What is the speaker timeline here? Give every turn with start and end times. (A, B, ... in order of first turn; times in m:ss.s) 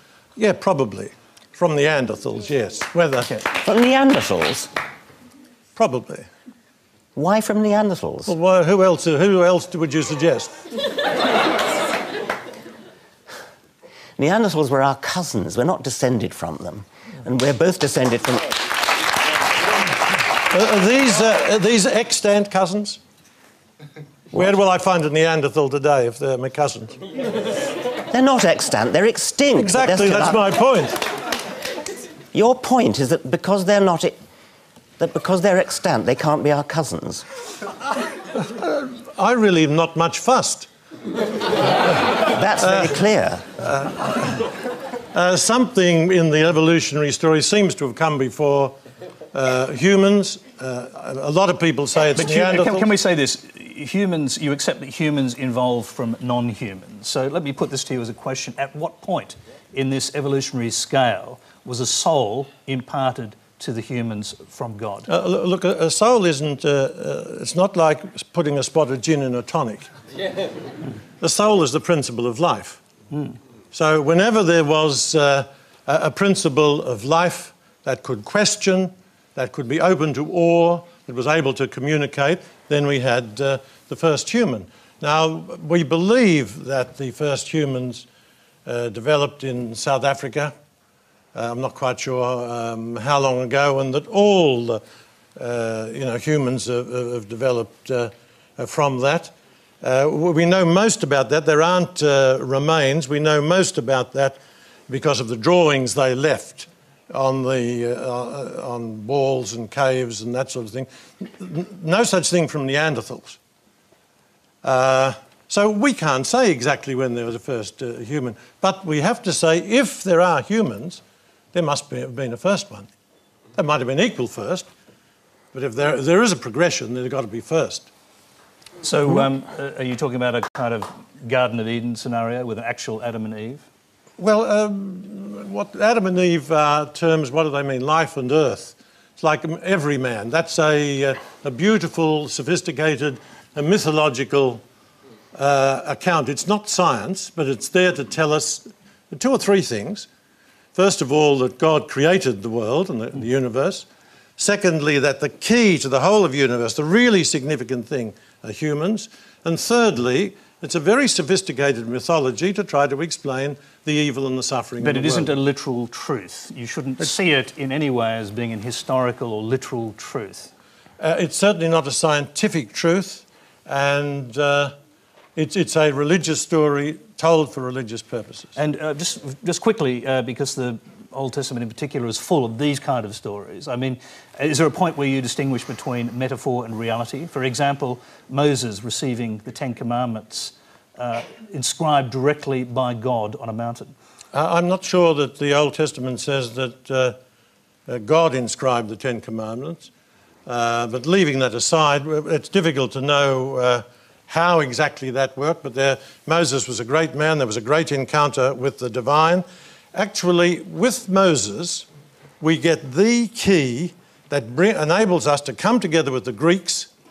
0:00.4-0:03.3 A
0:03.4-0:04.7 B
0:05.8-0:06.3 A
0:07.1-0:08.3 B
0:08.3-0:10.5 A
0:14.2-0:18.6 B
0:20.5-0:23.0 A
0:24.3-0:26.9 A
0:28.1-0:30.4 B
0:29.6-0:31.0 A
0:32.3-0:34.2 B
0:35.0-0:37.2 B
0:38.4-0:40.7 A
0:42.2-0:43.5 B
0:42.6-0:43.0 A
0:43.6-0:44.5 A
0:45.1-0:48.7 A
0:49.3-0:52.9 A
0:52.2-1:05.1 C
1:05.1-1:09.9 A
1:11.2-1:12.8 A
1:13.7-1:28.1 A
1:28.6-1:30.5 A
1:31.3-1:34.8 A
1:35.4-1:53.4 A
1:54.6-2:01.0 A
2:01.5-2:02.9 A
2:03.6-2:04.7 A
2:05.5-2:07.9 A
2:08.8-2:13.6 C
2:14.2-2:24.6 A
2:25.3-2:30.1 A
2:30.7-2:33.9 A
2:34.4-2:45.4 A
2:44.8-2:50.5 C
2:51.0-2:54.7 A
2:55.4-2:58.5 A
2:58.6-3:13.9 C
3:14.3-3:17.2 A
3:17.9-3:19.9 A
3:20.4-3:31.9 A
3:32.4-3:36.9 A